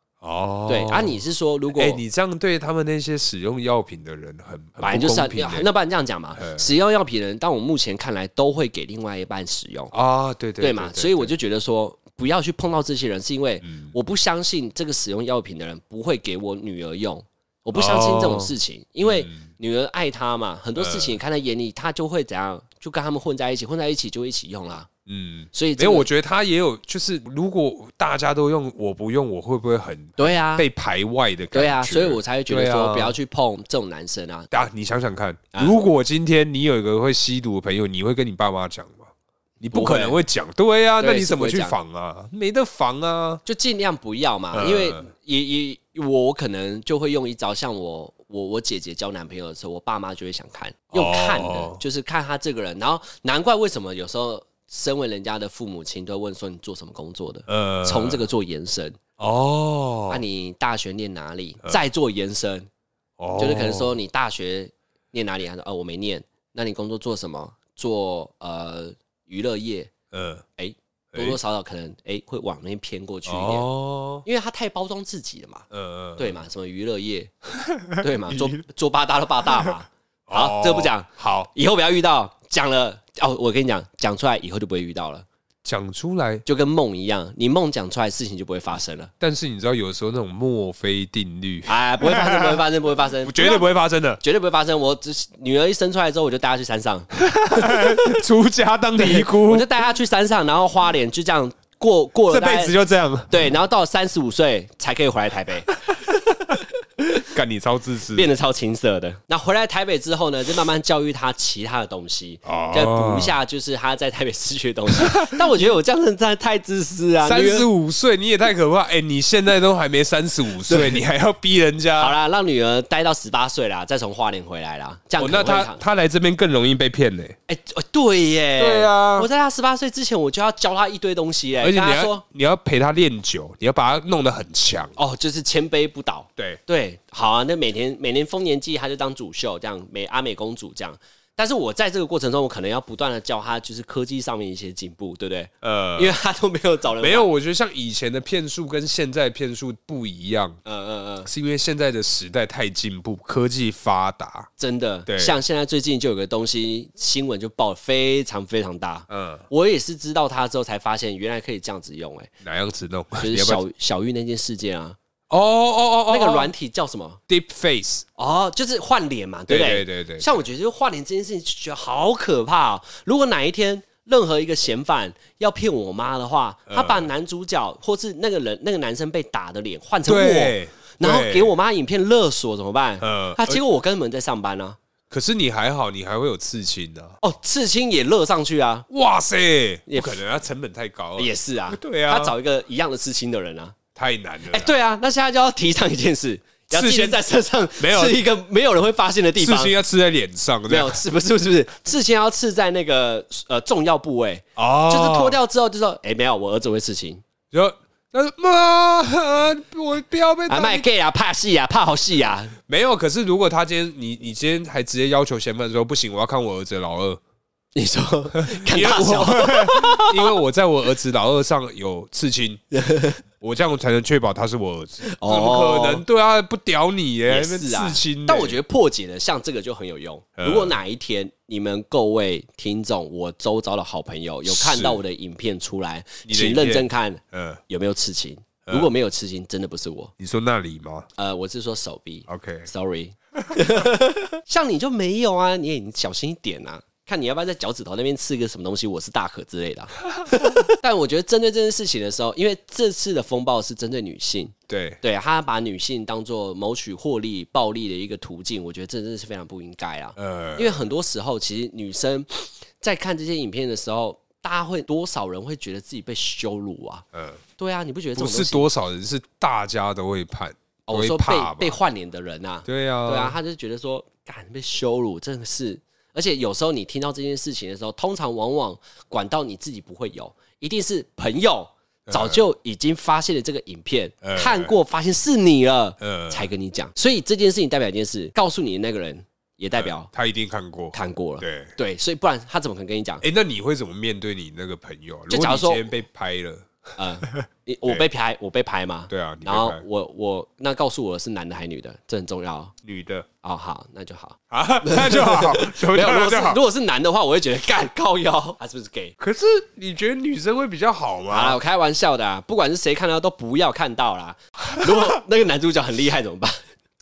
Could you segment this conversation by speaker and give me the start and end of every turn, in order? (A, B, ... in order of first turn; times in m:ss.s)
0:00.2-0:01.2 A
0:00.7-0:02.0 B
0:01.7-0:05.7 A
0:04.8-0:09.9 B
0:06.4-0:06.7 A
0:09.9-0:11.3 A
0:10.6-0:24.9 B
0:13.6-0:13.9 A
0:17.7-0:19.4 A
0:20.8-0:21.2 A
0:25.1-0:33.2 A
0:25.5-0:26.1 B
0:30.2-0:30.7 B
0:31.5-0:34.5 B
0:34.5-0:39.1 A
0:39.6-0:43.4 A
0:39.7-0:40.2 B
0:41.0-0:41.8 B
0:43.4-0:59.0 B
0:44.5-0:45.0 A
0:50.9-0:51.8 A
0:57.5-0:58.2 A
0:59.2-1:00.2 A
1:00.1-1:02.7 B
1:03.2-1:04.0 A
1:03.4-1:09.9 B
1:10.1-1:10.4 A
1:10.6-1:13.7 B
1:11.1-1:11.4 A
1:13.3-1:14.2 A
1:14.2-1:17.3 B
1:15.7-1:16.4 A
1:17.6-1:18.5 A
1:18.0-1:25.2 B
1:20.3-1:21.5 A
1:25.6-1:26.4 A
1:26.5-1:29.1 B
1:29.2-1:32.7 A
1:31.7-1:33.7 B
1:33.2-1:34.2 A
1:34.2-1:38.2 B
1:37.2-1:39.7 A
1:39.0-1:42.8 B
1:42.3-1:43.5 A
1:43.3-1:47.2 B
1:47.2-1:48.3 A
1:48.1-1:57.7 B
1:52.4-1:53.4 A
1:55.0-1:55.6 A
1:57.2-2:02.2 A
2:00.6-2:01.0 B
2:02.0-2:05.8 B
2:05.2-2:07.4 A
2:07.5-2:12.2 B
2:08.6-2:09.3 A
2:11.6-2:15.0 A
2:15.0-2:27.3 B
2:25.6-2:26.2 A
2:27.0-2:30.6 A
2:30.6-2:31.3 B
2:31.3-2:34.5 A
2:34.6-2:42.3 B
2:35.1-2:35.4 A
2:39.1-2:39.4 A
2:42.4-2:43.6 A
2:43.2-2:45.0 B
2:45.3-2:46.5 A
2:46.1-2:47.2 B
2:47.3-2:48.0 A
2:48.2-3:04.8 B
2:49.5-2:50.4 A
2:56.7-2:57.1 A
3:00.1-3:01.5 A
3:03.0-3:03.6 A
3:05.1-3:07.2 A
3:07.2-3:08.9 B
3:08.9-3:12.4 A
3:09.9-3:10.2 B
3:11.2-3:13.8 B
3:14.0-3:14.8 A
3:14.5-3:19.7 B
3:16.7-3:17.2 A
3:17.8-3:18.2 A
3:19.4-3:21.0 A
3:20.7-3:27.2 B
3:24.6-3:25.4 A
3:27.5-3:30.9 A
3:30.5-3:32.6 B
3:32.7-3:37.2 A
3:37.8-3:40.4 B
3:38.4-3:42.6 A
3:42.7-3:43.2 B
3:43.4-3:48.6 A
3:45.0-3:46.0 B
3:47.3-4:00.1 B
3:50.4-3:50.8 A
3:54.4-3:55.0 A
3:56.3-3:57.6 A
4:00.2-4:01.1 A
4:01.2-4:27.0 B
4:02.3-4:02.7 A
4:03.5-4:03.9 A
4:14.7-4:15.0 A
4:20.2-4:20.9 A
4:27.1-4:27.4 A
4:27.6-4:28.7 B
4:28.2-4:31.8 A
4:30.9-4:50.1 B
4:32.6-4:33.4 A
4:42.1-4:42.4 A
4:44.2-4:44.8 A
4:46.0-4:46.5 A
4:49.8-4:51.7 A
4:50.9-4:53.2 B
4:53.2-4:58.0 A
4:55.3-4:55.9 B
4:57.0-5:02.7 B
4:59.1-4:59.8 A
5:02.8-5:03.3 A
5:03.4-5:09.2 B
5:04.5-5:06.6 A
5:09.2-5:11.6 A
5:11.3-5:16.6 B
5:14.6-5:15.2 A